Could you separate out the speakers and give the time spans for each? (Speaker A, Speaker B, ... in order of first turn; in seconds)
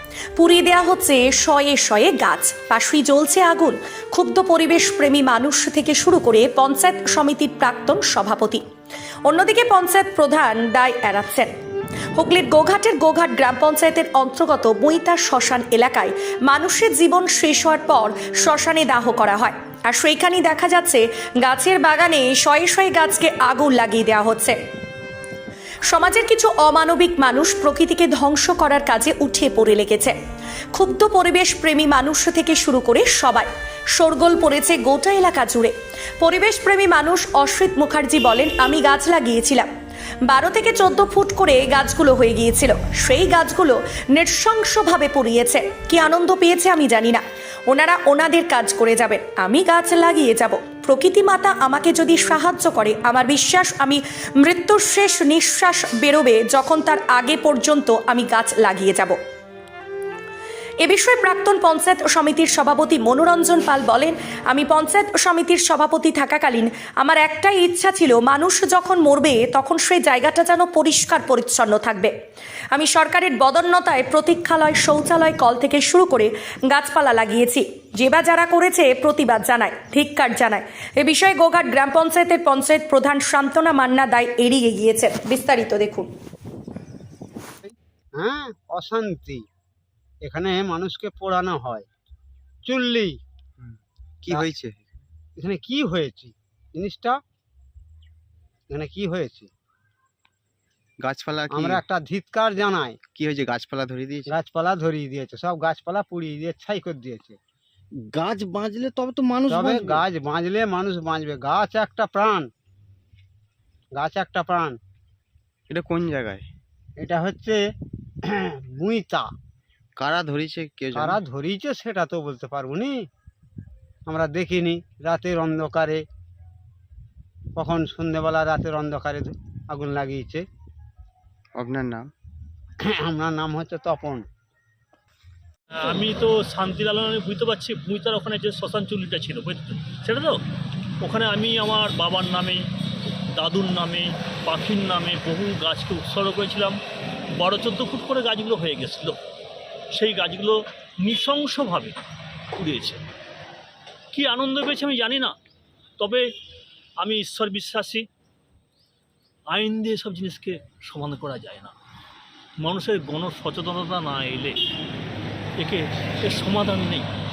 Speaker A: 0.4-8.6, 9.2-11.5, 12.2-24.6, 25.9-30.1, 30.7-39.7, 40.3-59.2, 60.8-72.1, 72.7-86.1
Speaker B: 87.6-89.4, 90.2-91.9, 92.6-93.1, 95.4-97.2, 98.7-99.5, 101.5-103.0, 104.3-107.4, 109.5-112.5, 113.9-114.8, 117.0-117.6, 118.7-119.3, 121.0-123.0, 124.1-126.0, 127.5-130.4, 133.0-134.2
Speaker C: 93.6-95.0, 101.0-101.8, 103.1-104.3, 108.0-110.0, 115.7-116.5, 120.0-121.2, 131.5-132.1
Speaker D: 135.7-140.4, 141.0-142.6, 143.3-146.8, 147.4-149.2, 149.9-152.0, 152.5-153.0, 154.1-155.3, 157.0-158.1, 159.5-161.7, 162.6-164.6, 165.6-167.1